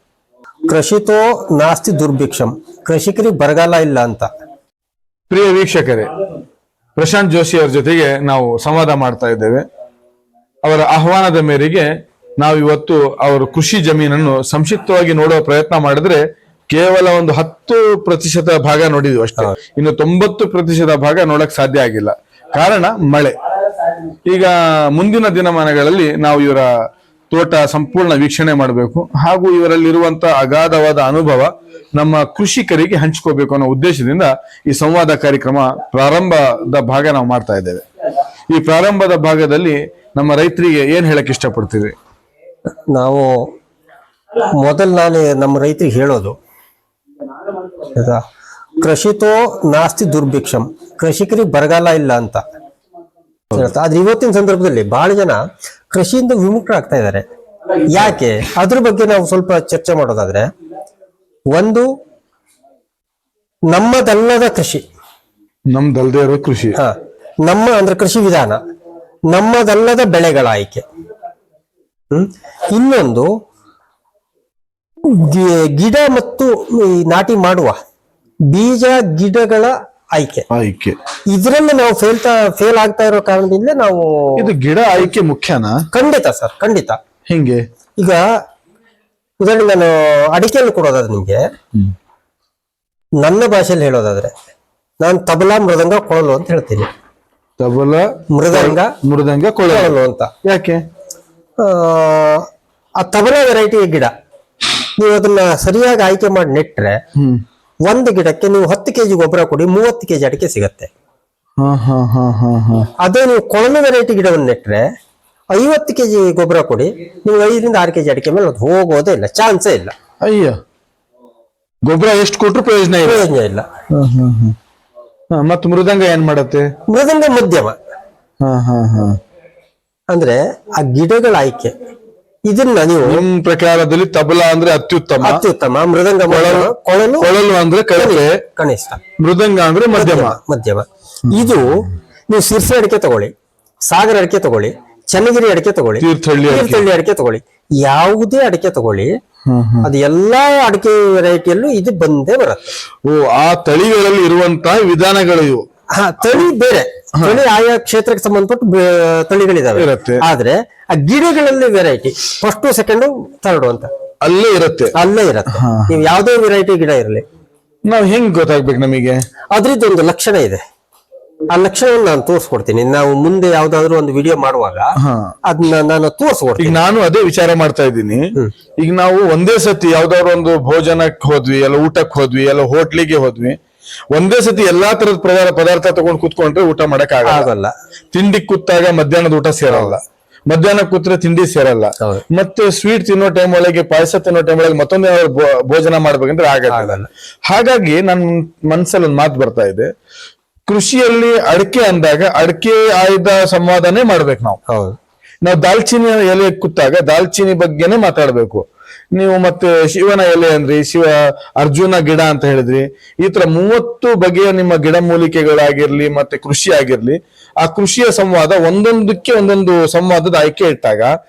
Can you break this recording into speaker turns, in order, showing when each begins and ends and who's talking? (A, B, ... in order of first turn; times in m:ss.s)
0:00.7-0:04.3 A
0:05.3-0:06.1 B
0:07.0-0:09.6 B
0:10.6-0:11.9 B
0:12.4-0:23.3 B
0:24.3-0:26.7 B
0:27.3-0:37.8 B
0:38.5-0:42.0 B
0:42.9-0:43.3 A
0:44.6-0:46.3 A
0:47.9-0:48.2 A
0:48.8-0:52.4 A
0:53.5-0:55.4 A
0:55.9-0:57.2 A
0:57.9-1:00.5 A
1:01.5-1:01.9 A
1:03.7-1:04.8 A
1:05.7-1:06.8 B
1:06.8-1:08.6 A
1:09.3-1:10.8 A
1:12.1-1:13.3 A
1:15.0-1:17.8 A
1:18.5-1:20.4 A
1:20.5-1:21.0 B
1:21.3-1:24.4 A
1:24.4-1:25.8 B
1:25.9-1:27.0 A
1:27.3-1:27.6 B
1:29.4-1:31.4 A
1:33.2-1:34.3 A
1:35.0-1:36.9 A
1:37.6-1:40.8 B
1:38.3-1:38.9 A
1:39.7-1:40.3 A
1:41.6-1:42.5 A
1:43.0-1:44.1 A
1:45.0-1:47.0 A
1:47.2-1:47.4 B
1:47.9-1:50.9 A
1:51.6-1:52.9 B
1:53.0-1:54.9 A
1:55.5-1:59.9 A
2:00.2-2:00.6 B
2:01.9-2:03.2 B
2:03.0-2:03.7 A
2:03.9-2:04.6 B
2:05.3-2:06.7 B
2:06.9-2:07.8 A
2:08.4-2:09.2 B
2:10.1-2:11.7 A
2:12.5-2:13.2 A
2:13.0-2:15.4 B
2:15.2-2:17.3 A
2:16.2-2:18.3 B
2:18.0-2:19.0 A
2:19.2-2:20.4 B
2:19.9-2:23.3 A
2:23.9-2:29.1 A
2:26.0-2:26.8 B
2:29.5-2:29.9 B
2:29.8-2:32.6 A
2:33.0-2:35.6 B
2:35.9-2:43.9 A
2:39.8-2:40.2 B
2:44.2-2:44.9 B
2:44.9-2:47.2 A
2:45.5-2:46.1 B
2:47.9-2:49.2 B
2:49.5-2:50.6 A
2:51.5-2:54.9 A
2:55.0-2:55.3 B
2:55.5-2:56.8 A
2:56.6-3:03.6 B
3:04.1-3:07.5 B
3:07.2-3:07.7 A
3:08.1-3:16.9 B
3:09.7-3:10.0 A
3:16.7-3:17.1 A
3:17.5-3:19.9 B
3:20.7-3:24.6 B
3:24.7-3:25.0 A
3:25.4-3:41.1 B